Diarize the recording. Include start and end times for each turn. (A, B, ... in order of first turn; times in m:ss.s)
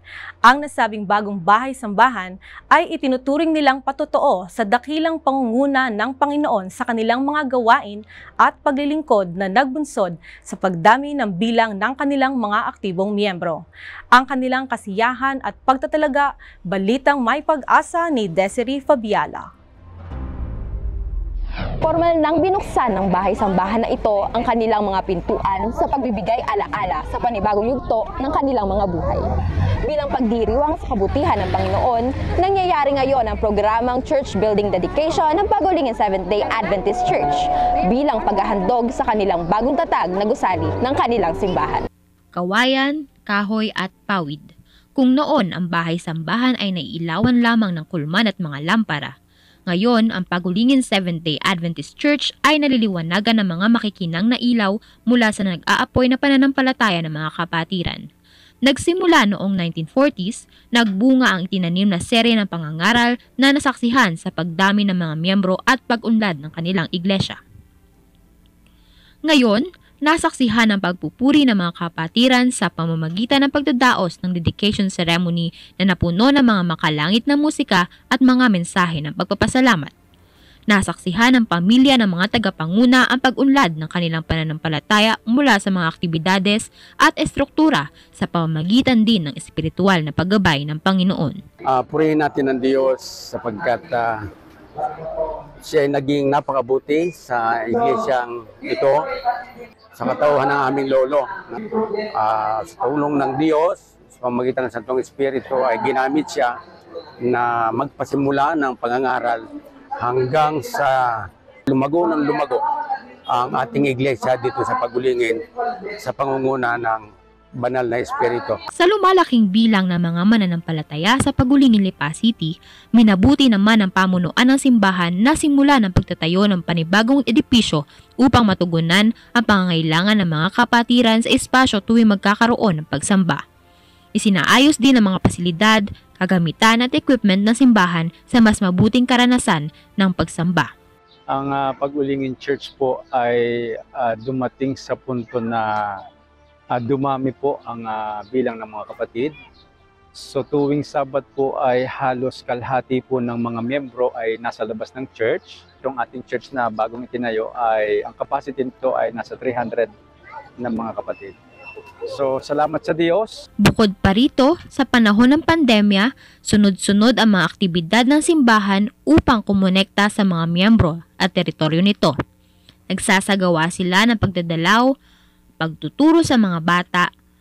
0:00.5-0:13.6 A
0:14.1-0:19.5 A
0:21.8-0:29.3 B
0:29.8-0:41.9 B
0:42.3-0:49.1 C
0:49.7-0:58.0 C
0:58.6-1:07.4 C
1:09.3-1:19.9 C
1:20.7-1:31.4 C
1:31.6-1:34.3 D
1:35.6-1:39.1 D
1:39.9-1:46.6 D
1:47.2-1:52.6 D
1:53.3-1:58.6 D
1:58.8-2:13.4 C
2:14.2-2:20.7 C
2:21.3-2:26.0 E
2:26.7-2:29.4 E
2:30.1-2:39.9 E
2:40.6-2:41.4 E
2:42.1-2:43.4 E
2:43.6-2:52.2 C
2:52.9-2:54.9 C
2:55.6-2:57.1 C